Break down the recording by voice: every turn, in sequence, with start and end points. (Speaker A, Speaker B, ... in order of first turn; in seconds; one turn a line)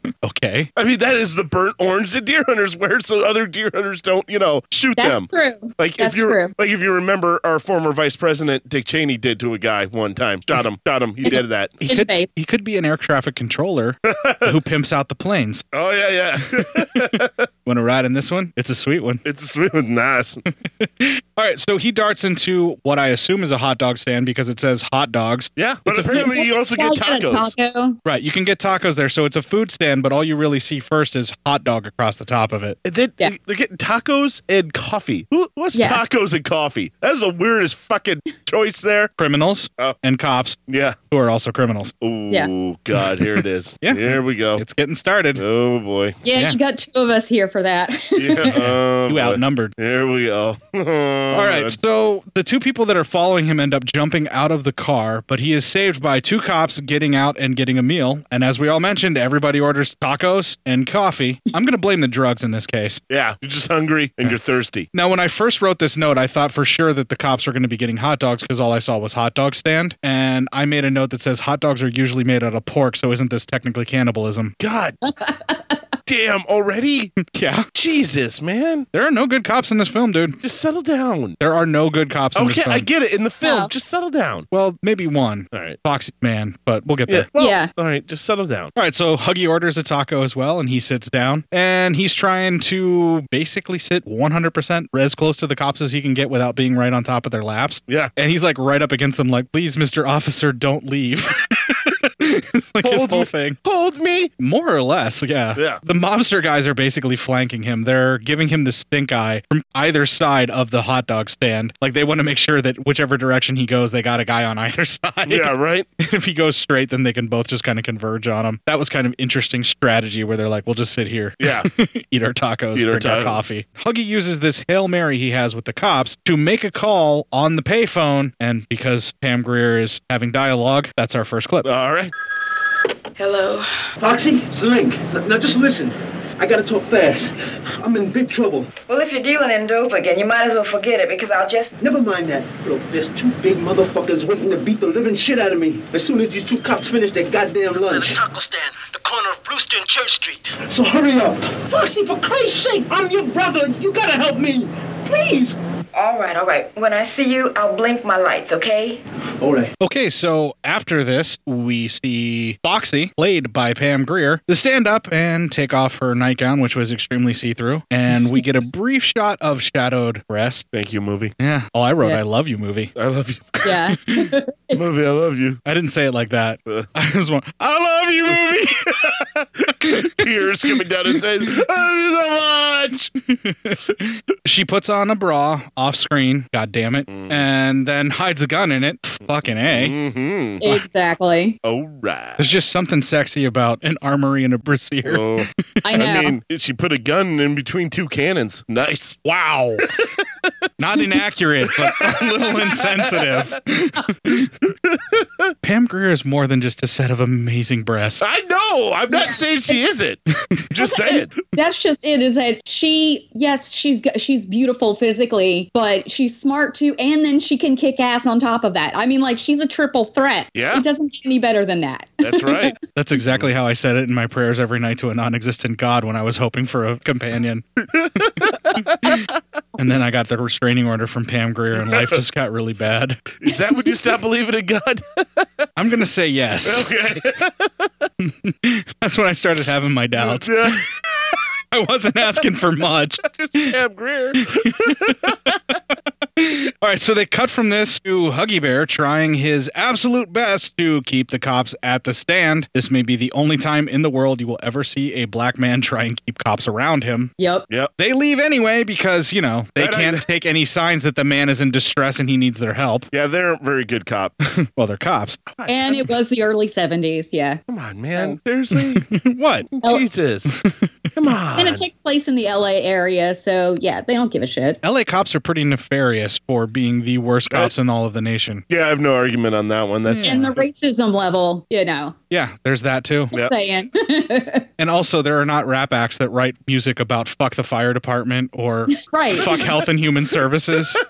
Speaker A: 0.2-0.7
Speaker B: 0.8-11.8
Speaker C: 5.0-6.5
Speaker C: 11.2-12.3
Speaker A: 11.8-15.7
Speaker B: 14.1-14.5
Speaker B: 15.7-17.5
Speaker A: 17.7-19.2
Speaker B: 19.2-20.4
Speaker A: 20.8-26.3
Speaker B: 25.6-27.5
Speaker C: 26.1-28.0
Speaker A: 28.1-32.8
Speaker B: 32.9-39.1
Speaker C: 35.8-36.0
Speaker A: 39.2-40.6
Speaker B: 40.7-41.0
Speaker A: 41.1-41.9
Speaker B: 42.0-44.6
Speaker A: 43.8-45.4
Speaker B: 45.4-46.2
Speaker C: 46.2-48.6
Speaker B: 48.2-51.8
Speaker A: 48.6-49.7
Speaker A: 51.3-63.0
Speaker B: 63.1-64.9
Speaker A: 64.9-74.5
Speaker B: 74.6-75.0
Speaker C: 75.0-75.8
Speaker B: 76.1-77.1
Speaker A: 77.3-77.7
Speaker B: 77.7-78.9
Speaker A: 78.9-80.4
Speaker B: 80.4-81.4
Speaker A: 81.4-82.9
Speaker B: 82.3-84.5
Speaker C: 83.4-83.7
Speaker A: 84.5-87.3
Speaker B: 85.5-85.8
Speaker B: 87.1-88.7
Speaker C: 87.4-87.7
Speaker A: 88.8-103.6
Speaker B: 97.9-98.1
Speaker B: 102.8-104.3
Speaker A: 104.4-131.7
Speaker B: 105.6-105.8
Speaker B: 115.3-115.9
Speaker B: 121.4-121.7
Speaker B: 122.8-123.4
Speaker B: 131.7-132.1
Speaker D: 133.2-133.7
Speaker E: 134.0-138.7
Speaker D: 138.9-141.7
Speaker E: 141.8-155.6
Speaker D: 155.9-159.0
Speaker E: 159.4-159.7
Speaker A: 159.8-170.7
Speaker B: 170.7-171.3
Speaker A: 171.4-172.9
Speaker B: 173.0-173.8
Speaker C: 173.6-174.8
Speaker B: 174.7-175.6
Speaker A: 175.7-178.7
Speaker B: 178.3-183.1
Speaker A: 183.3-189.9
Speaker B: 187.1-187.4
Speaker B: 189.7-190.7
Speaker C: 190.6-191.6
Speaker B: 191.6-192.5
Speaker A: 192.4-195.2
Speaker B: 195.1-199.2
Speaker C: 195.8-196.3
Speaker A: 199.2-199.8
Speaker A: 200.8-204.5
Speaker B: 201.8-203.0
Speaker B: 204.8-205.5
Speaker A: 205.6-208.2
Speaker B: 208.2-210.2
Speaker C: 209.1-209.8
Speaker B: 210.7-211.4
Speaker C: 210.8-222.7
Speaker B: 220.6-220.8
Speaker B: 222.2-222.8
Speaker A: 223.0-227.6
Speaker B: 227.9-228.8
Speaker A: 229.8-233.4
Speaker B: 231.8-232.2
Speaker B: 233.4-235.4
Speaker A: 235.8-236.9
Speaker B: 236.7-238.1
Speaker A: 238.2-240.8
Speaker B: 240.2-240.8
Speaker A: 241.7-243.7
Speaker B: 243.2-245.4
Speaker A: 244.6-245.3
Speaker A: 246.4-257.3
Speaker C: 257.4-257.7
Speaker A: 258.0-263.1
Speaker B: 259.8-260.2
Speaker B: 263.1-264.4
Speaker A: 264.5-265.4
Speaker B: 265.5-266.1
Speaker C: 265.7-267.6
Speaker B: 267.7-269.1
Speaker A: 268.8-269.7
Speaker B: 269.7-270.6
Speaker B: 271.2-271.8
Speaker C: 271.6-274.8
Speaker A: 274.8-278.6
Speaker B: 278.7-280.6
Speaker A: 280.1-280.6
Speaker C: 280.2-282.2
Speaker A: 282.3-283.4
Speaker C: 283.3-284.7
Speaker A: 284.8-291.0
Speaker C: 289.1-289.6